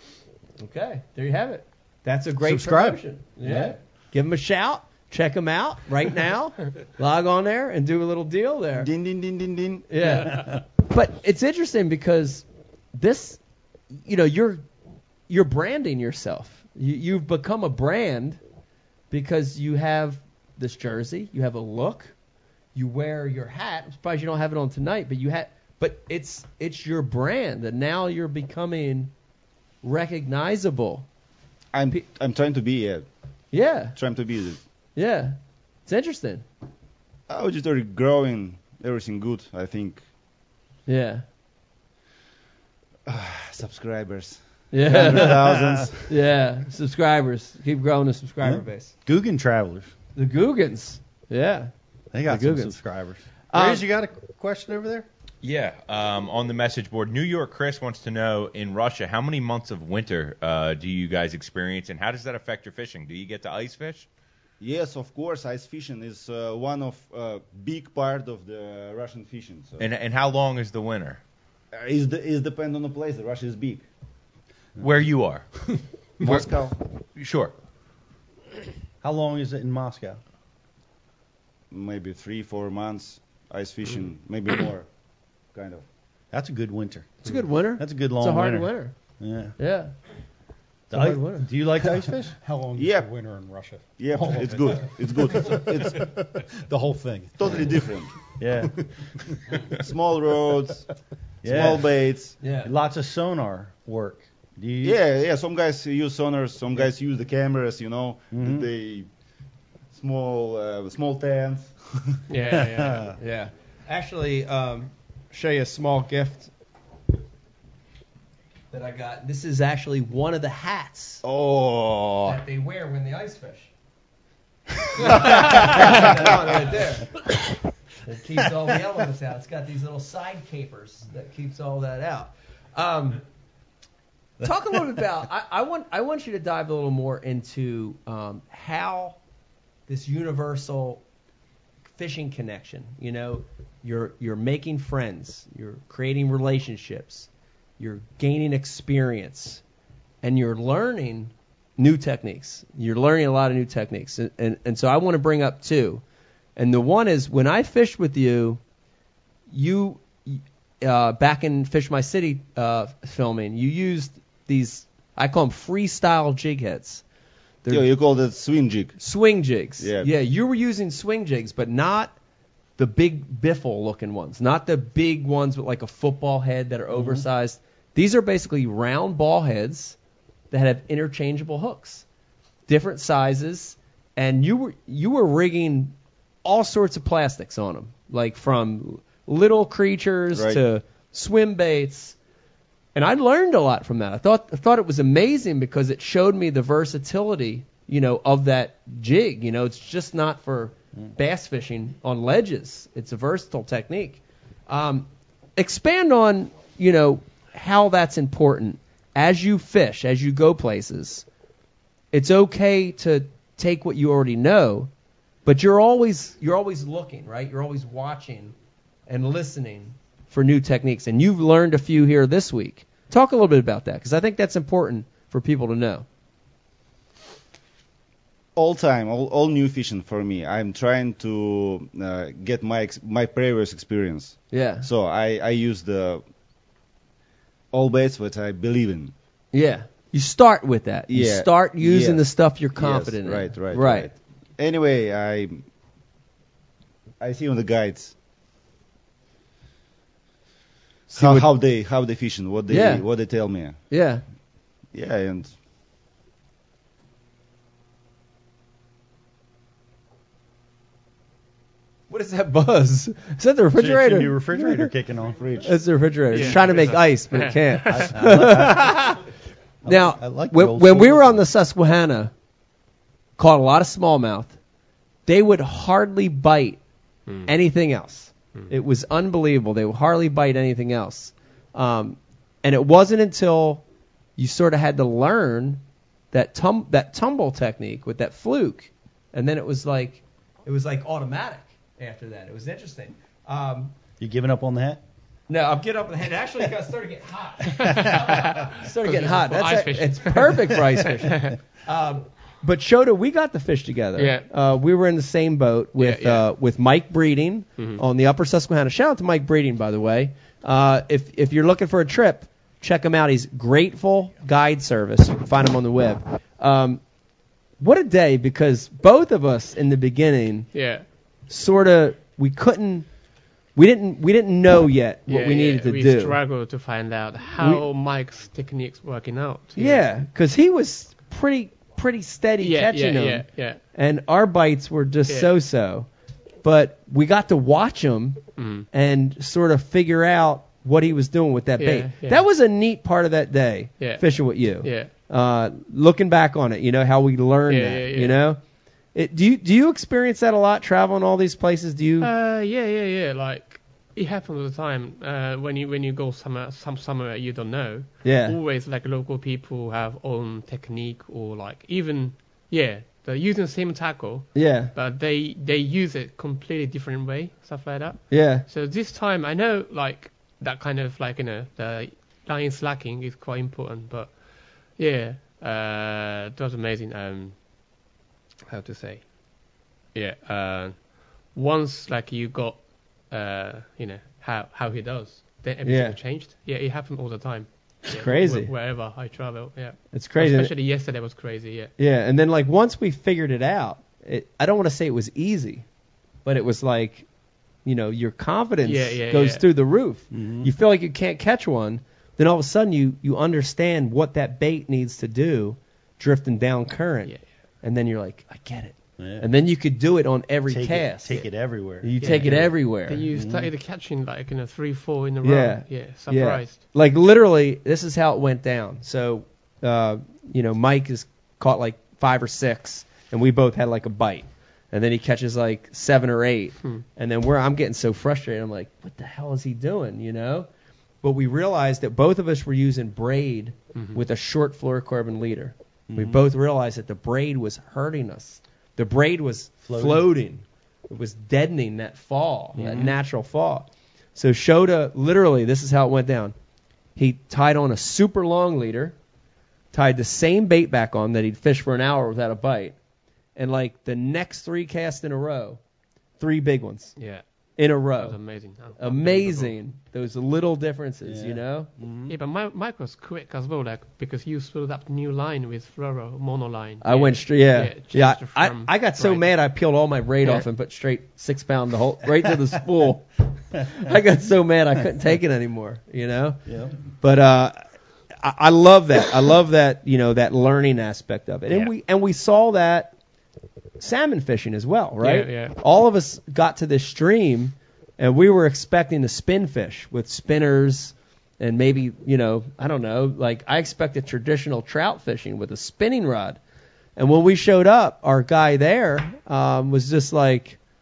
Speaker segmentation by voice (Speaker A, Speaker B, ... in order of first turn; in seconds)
Speaker A: 0.6-8.9, 9.9-14.7, 15.3-18.4, 19.1-22.1, 22.7-29.1, 29.8-31.1, 33.5-34.0, 35.0-36.4, 40.9-41.2, 44.7-45.5, 46.0-48.9, 50.1-51.7, 52.2-52.8, 53.5-53.8, 87.2-88.9, 89.6-89.9, 90.9-91.8, 102.4-102.7, 113.2-116.5, 118.7-121.2, 122.2-123.7, 125.0-127.2, 128.0-133.2, 134.4-139.2, 139.9-141.0, 141.9-149.6, 150.2-156.0, 156.6-158.6, 159.5-167.0, 169.0-172.2, 172.8-180.0, 180.5-182.0, 182.7-192.2, 192.9-211.2, 212.1-214.9, 215.4-218.5, 219.1-226.1, 234.5-234.8, 239.5-244.1, 251.1-251.5, 252.7-253.1, 253.9-254.2, 262.1-264.9, 265.6-269.2, 269.8-272.3, 273.4-274.6, 275.2-276.8, 277.4-283.8, 284.4-293.9, 295.5-317.0, 317.8-320.7, 321.5-323.1, 323.7-326.4, 327.6-327.9, 329.8-336.1, 336.6-348.6, 349.1-352.3, 358.2-358.6, 364.5-364.9, 368.3-368.6, 385.8-386.2, 388.1-388.7, 390.1-390.7, 392.0-395.9, 396.4-397.3, 397.8-411.4, 412.0-413.2, 415.4-430.7, 431.2-446.5, 447.1-449.1, 449.9-453.0, 453.6-455.8, 456.4-457.1, 457.8-458.4, 458.9-461.9, 467.0-476.6, 477.2-483.1, 484.0-496.6, 497.1-500.8
Speaker B: 2.4-3.8, 10.2-10.6, 44.9-45.9, 48.4-49.9, 52.1-55.1, 79.0-80.2, 86.3-89.5, 90.9-92.4, 98.4-98.7, 101.4-101.9, 102.4-105.0, 108.3-108.7, 112.5-113.1, 128.5-128.9, 263.7-265.6, 267.9-269.2, 269.8-271.4, 294.2-295.0, 400.3-400.7, 409.2-409.4, 410.7-412.7, 413.3-413.7, 436.1-436.4, 439.8-440.3, 442.8-443.1, 461.2-462.3, 476.6-476.9
Speaker C: 8.8-9.9, 31.7-33.0, 33.9-34.6, 37.3-40.0, 43.1-46.1, 64.6-69.9, 71.7-73.8, 76.2-76.8, 81.7-84.9, 85.5-85.8, 92.8-93.1, 94.0-96.1, 97.3-98.1, 99.7-100.8, 101.4-102.4, 104.8-109.1, 109.9-112.2, 121.2-122.4, 125.0-126.6, 167.7-169.0, 169.8-170.1, 190.3-190.6, 228.6-236.2, 237.7-239.1, 241.1-245.6, 247.2-248.1, 251.1-253.8, 254.9-255.5, 265.3-265.7
Speaker D: 55.4-64.1, 69.8-71.2, 74.8-76.5, 77.2-77.5
Speaker E: 92.4-97.3
Speaker F: 112.3-113.1, 266.3-268.1, 297.7-301.6, 304.2-304.5, 306.0-306.5, 307.8-308.0, 320.7-321.0, 325.3-330.0, 332.6-333.8, 338.6-338.9, 341.8-342.4, 344.0-345.1, 347.7-348.4, 352.2-377.6, 378.7-379.3, 380.1-391.9, 398.8-399.6, 412.2-416.8, 433.9-434.2, 442.8-443.1, 457.1-457.4, 458.1-459.8, 462.3-469.5, 470.4-470.7, 485.2-485.8